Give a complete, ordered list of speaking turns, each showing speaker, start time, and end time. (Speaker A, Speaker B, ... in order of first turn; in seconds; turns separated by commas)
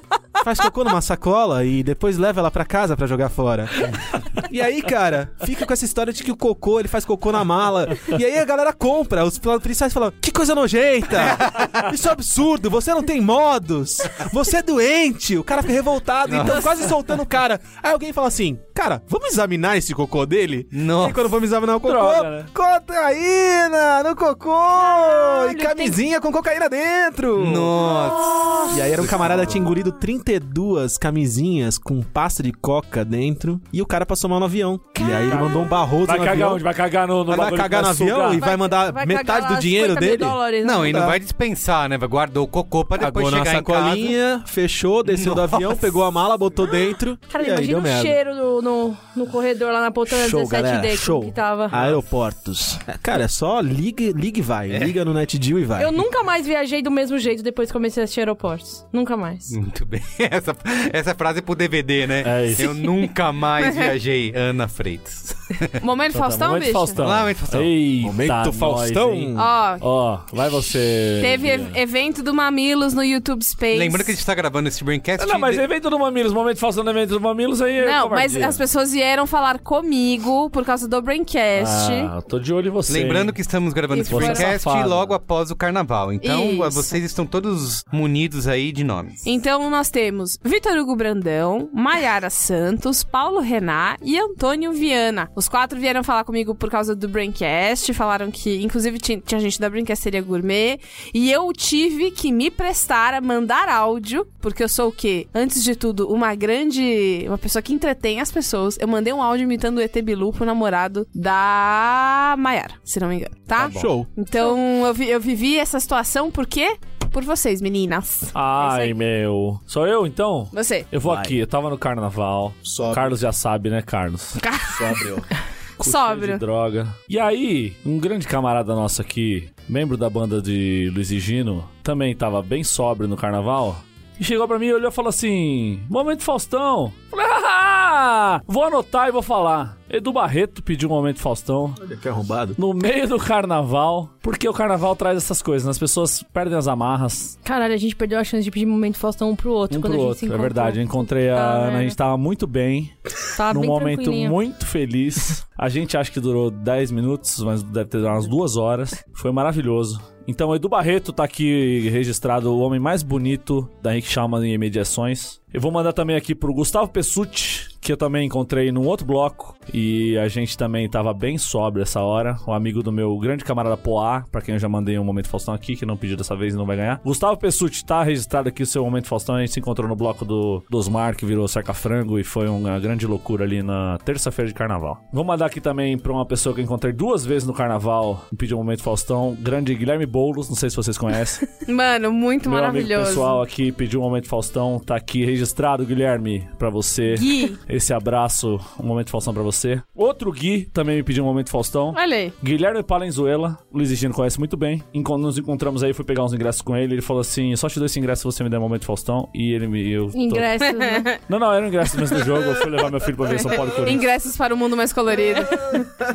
Speaker A: 0.4-28.0, Speaker B: 11.3-11.8, Speaker B: 16.3-16.9, Speaker B: 20.7-21.3, Speaker C: 21.8-22.5, Speaker D: 25.0-25.9, Speaker B: 27.4-29.6, Speaker A: 28.7-36.6, Speaker C: 35.2-38.4, Speaker A: 37.3-41.2, Speaker E: 38.3-41.0, Speaker B: 40.6-44.1, Speaker A: 43.0-48.2, Speaker B: 45.1-45.8, Speaker E: 47.3-51.9, Speaker A: 50.1-56.0, Speaker E: 55.8-59.5, Speaker B: 59.5-65.7, Speaker C: 62.2-62.8, Speaker D: 63.6-63.9, Speaker D: 65.8-67.0, Speaker C: 66.1-71.8, Speaker B: 67.0-67.7, Speaker A: 68.0-69.5, Speaker D: 69.3-69.8, Speaker D: 71.2-74.2, Speaker B: 73.7-75.6, Speaker C: 75.2-78.6, Speaker D: 77.8-82.1, Speaker C: 81.5-83.4, Speaker B: 82.9-89.2, Speaker D: 83.9-84.5, Speaker C: 84.1-85.2, Speaker D: 86.2-87.0, Speaker D: 89.2-118.9, Speaker A: 113.5-114.1, Speaker C: 118.3-124.4, Speaker D: 120.5-120.9, Speaker A: 121.0-121.4, Speaker A: 122.6-123.2, Speaker D: 124.4-125.2, Speaker A: 124.7-125.2, Speaker D: 125.8-126.4, Speaker C: 125.8-141.8, Speaker A: 141.8-142.6, Speaker C: 142.6-147.3, Speaker E: 147.4-151.9, Speaker C: 149.7-152.9, Speaker E: 153.3-154.4, Speaker C: 153.5-191.4, Speaker D: 191.6-193.4, Speaker C: 192.4-210.5, Speaker D: 197.1-197.6, Speaker D: 201.9-202.3, Speaker E: 210.1-211.1, Speaker D: 210.7-211.2, Speaker C: 211.3-214.1, Speaker D: 212.0-215.8